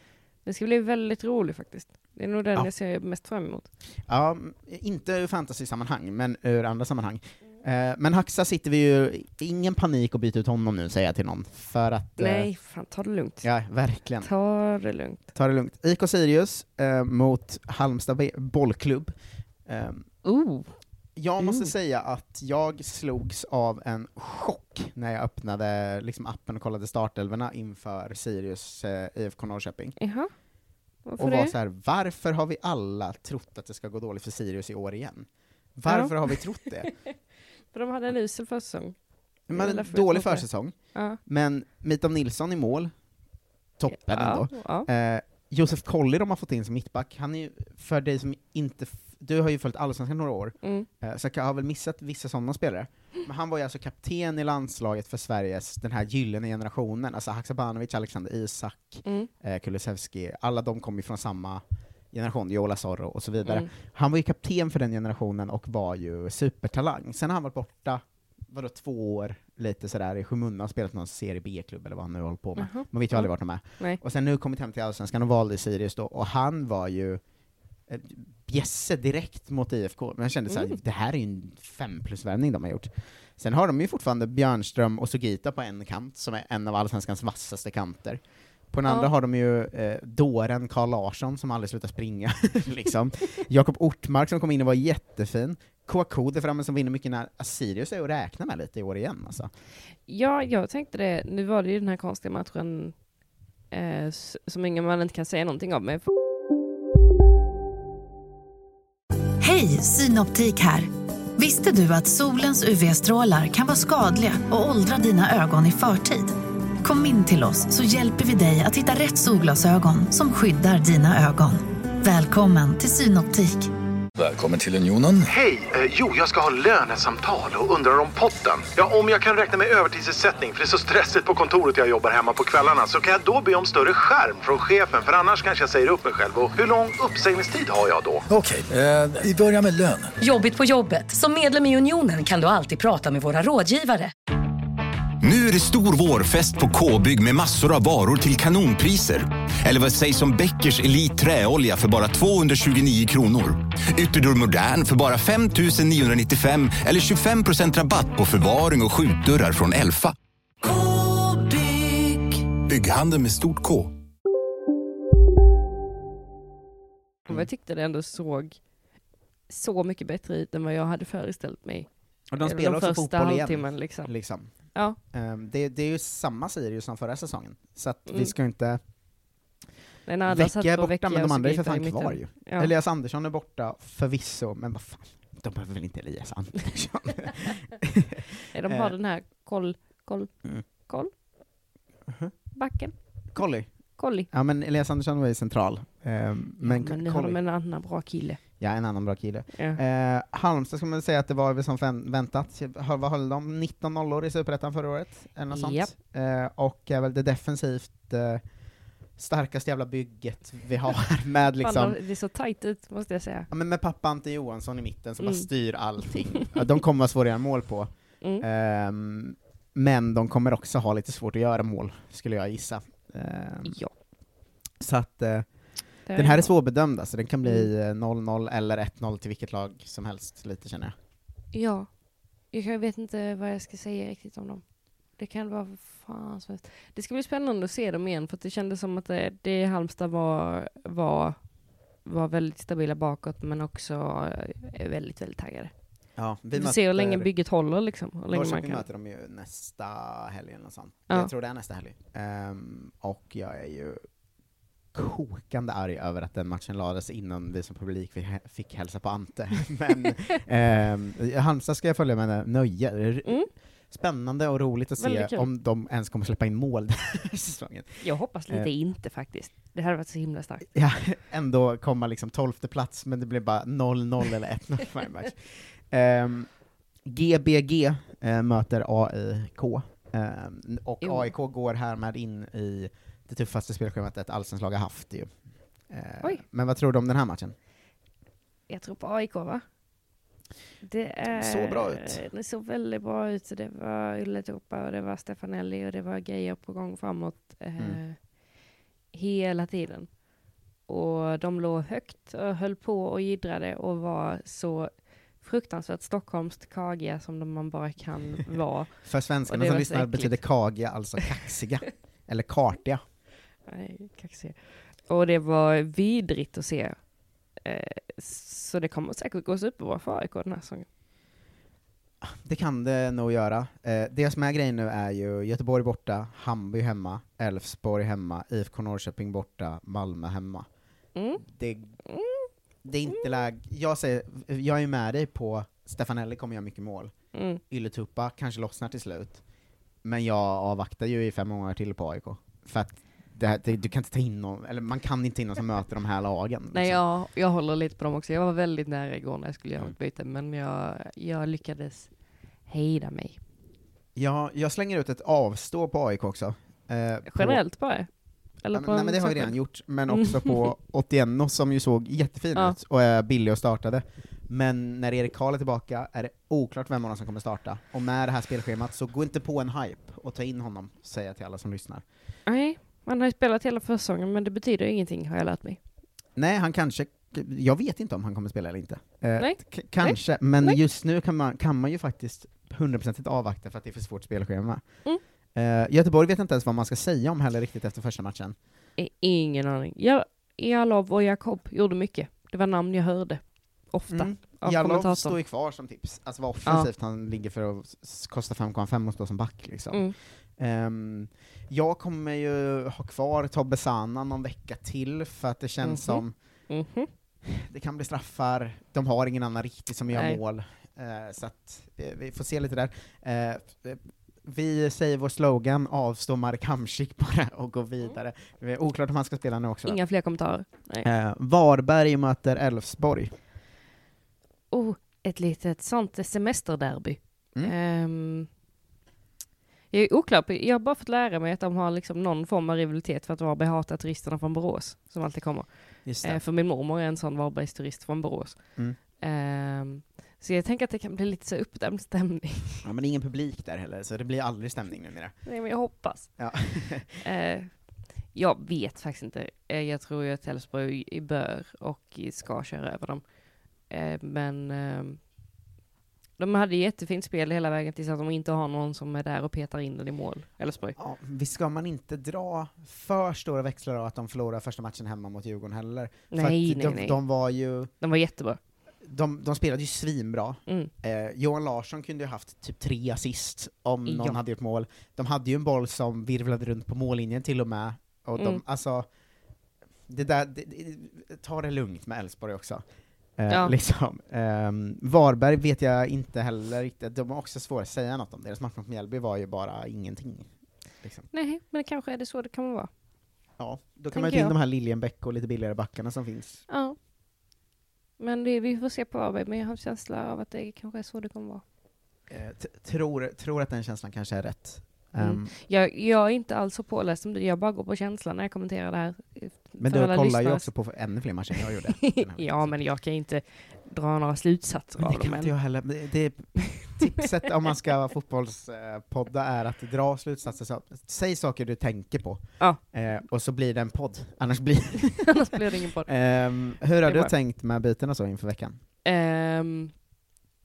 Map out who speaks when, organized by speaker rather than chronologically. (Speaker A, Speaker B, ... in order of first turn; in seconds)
Speaker A: 0.4-3.7, 12.2-13.5, 14.2-15.2, 20.2-20.8, 21.4-21.7, 30.0-30.3, 30.9-31.5, 35.9-36.3, 37.7-41.2, 43.9-44.9, 50.6-50.9, 59.0-59.3, 63.4-63.7, 72.6-74.0, 80.5-80.8, 88.8-89.1, 100.1-103.1, 103.7-106.0, 167.3-168.7, 169.5-175.0, 178.1-178.3, 180.1-182.7, 188.5-191.1, 192.5-194.3, 196.6-198.4, 199.5-199.8, 205.5-205.9, 211.6-213.5, 215.2-215.5, 223.7-223.9, 226.0-226.5, 227.4-227.7, 231.5-246.0, 246.5-248.8, 265.0-265.5, 268.0-270.7, 281.0-281.3, 288.7-289.7, 290.8-310.6, 313.6-320.9, 331.1-331.4, 332.1-332.5, 337.3-337.6, 346.7-353.4, 357.2-360.7, 372.4-375.8, 379.4-380.8, 389.0-395.4, 405.8-407.1, 410.1-410.4, 419.8-421.1, 424.7-428.5, 429.9-442.8, 445.4-446.7, 447.2-455.3, 456.4-460.9, 466.3-467.2, 468.0-468.6, 474.1-474.4, 483.5-483.7, 491.3-492.9, 494.1-494.5, 496.7-496.9, 498.2-501.6, 505.2-510.7, 512.0-515.5, 525.3-527.3, 529.0-530.0
Speaker B: 4.0-12.5, 13.4-14.3, 15.3-20.1, 21.1-30.0, 31.2-36.9, 39.5-43.0, 43.8-77.2, 77.9-99.5, 172.3-178.8, 180.2-188.9, 192.1-197.4, 198.6-208.6, 209.1-212.0, 213.5-224.0, 224.8-230.9, 246.2-247.3, 248.3-254.1, 254.9-268.7, 270.7-287.5, 291.3-292.2, 309.0-313.0, 322.2-330.7, 331.4-331.9, 332.8-337.2, 337.7-339.4, 340.0-347.0, 354.1-357.6, 358.7-372.0, 376.3-388.6, 394.1-406.3, 407.4-420.0, 421.0-423.3, 436.0-436.4, 442.8-445.5, 446.4-447.2, 460.9-467.9, 469.0-479.1, 480.1-482.8, 483.4-491.3, 493.6-496.7, 502.3-505.5, 509.8-512.8, 515.0-525.4, 526.0-528.8
Speaker C: 109.4-123.7
Speaker D: 124.2-125.3, 138.3-140.1
Speaker E: 125.3-138.2
Speaker F: 140.2-144.1
Speaker G: 145.2-160.2, 162.6-164.0